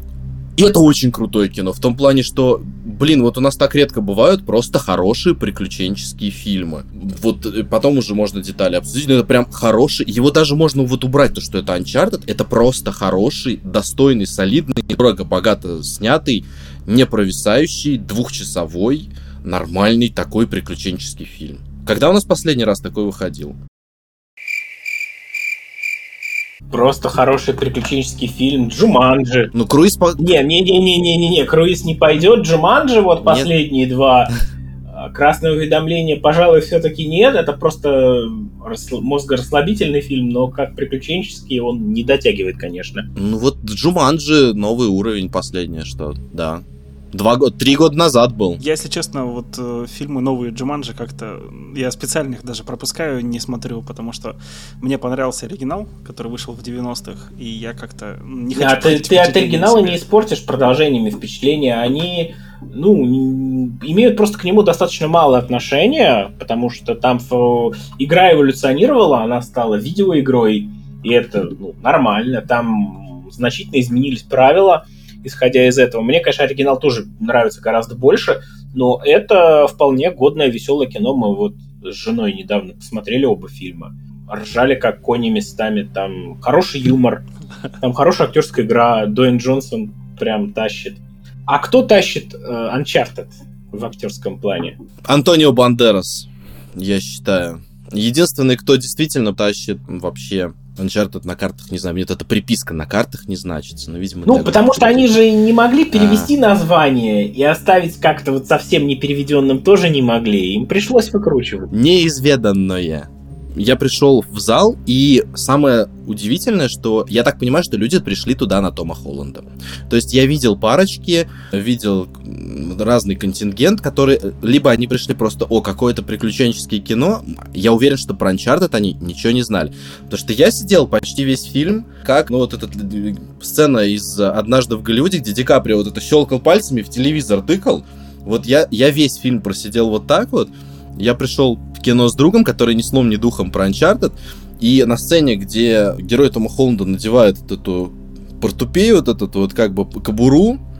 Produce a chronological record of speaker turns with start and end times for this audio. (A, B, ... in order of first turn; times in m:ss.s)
0:00.6-0:23.6 A
0:26.7-0:29.5 B
0:29.5-0:30.4 A
0:30.2-0:34.3 B
0:33.2-0:33.5 A
0:34.9-0:43.1 B
0:43.2-0:48.6 A
0:48.6-1:00.0 C
0:58.5-1:27.2 B
1:27.8-1:34.8 B
1:35.1-1:45.1 A
1:44.3-1:51.7 B
1:45.9-1:46.3 A
1:51.7-2:30.6 A